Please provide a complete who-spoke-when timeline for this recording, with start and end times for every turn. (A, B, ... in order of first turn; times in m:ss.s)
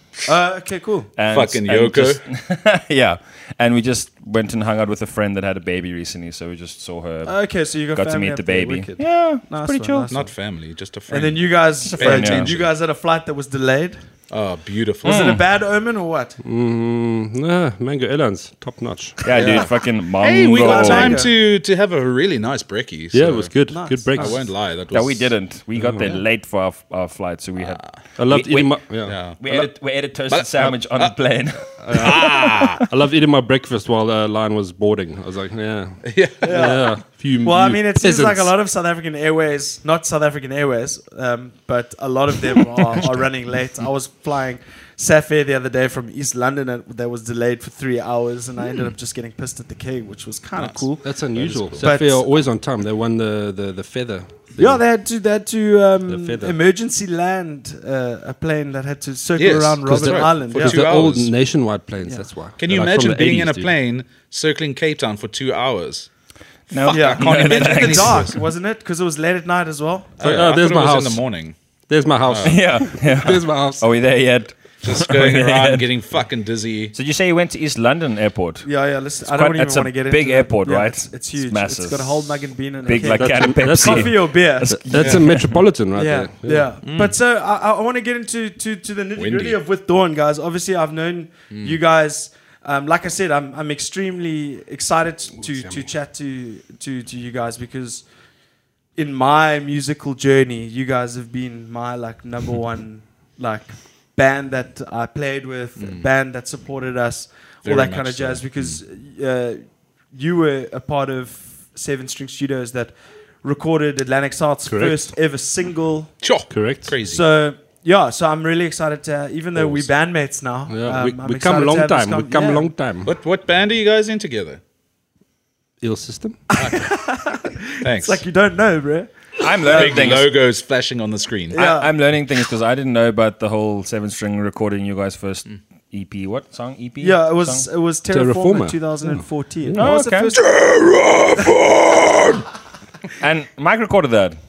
0:00.3-0:01.1 A
0:01.2-0:07.4 B
0:01.3-0:02.2 C
0:07.2-0:10.3 A
0:07.9-0:10.1 B
0:10.1-0:12.7 C
0:11.1-0:14.1 A
0:11.8-0:12.6 B
0:14.3-0:15.3 C
0:15.0-0:16.4 A
0:15.0-0:15.4 B
0:16.4-0:19.6 D
0:19.2-0:21.2 B
0:19.3-0:25.3 C
0:20.6-0:21.3 A
0:23.1-0:24.5 D
0:23.7-0:24.3 A
0:24.9-0:32.9 B
0:25.8-0:26.2 D
0:27.6-0:27.9 C
0:28.2-0:29.2 D
0:29.0-0:29.7 C
0:30.3-0:31.2 C
0:31.8-0:38.5 D
0:31.9-0:32.8 C
0:36.1-0:36.7 C
0:36.4-0:52.3 A
0:50.6-0:52.0 C
0:51.0-0:54.8 D
0:54.6-1:00.8 A
0:56.1-0:56.6 D
0:59.4-1:01.3 C
0:59.9-1:03.8 D
1:02.6-1:06.1 C
1:06.7-1:08.4 C
1:06.7-1:08.4 B
1:06.9-1:10.1 A
1:10.2-1:11.6 C
1:10.2-1:11.3 D
1:11.9-1:13.9 D
1:12.2-1:12.6 C
1:12.4-1:15.9 B
1:14.8-1:17.0 C
1:16.9-1:18.7 B
1:18.6-1:24.8 A
1:19.2-1:25.6 B
1:23.0-1:26.7 D
1:25.0-1:25.2 C
1:26.0-1:38.1 A
1:26.8-1:27.2 C
1:29.2-1:29.6 C
1:31.5-1:31.8 C
1:35.4-1:35.9 D
1:39.0-1:56.1 A
1:45.8-1:46.1 C
1:47.6-1:48.8 C
1:54.7-1:55.1 D
1:56.2-1:57.2 C
1:56.5-1:57.0 D
1:57.1-2:02.7 A
1:59.6-1:59.8 D
2:00.7-2:03.1 D
2:03.0-2:04.6 C
2:05.8-2:06.4 D
2:06.5-2:10.2 A
2:06.5-2:07.0 C
2:07.8-2:08.2 C
2:09.4-2:10.3 B
2:09.7-2:11.6 C
2:11.5-2:11.9 A
2:11.5-2:17.7 B
2:17.0-2:20.5 A
2:18.1-2:19.9 D
2:19.8-2:20.3 B
2:20.4-2:22.4 C
2:23.2-2:24.4 B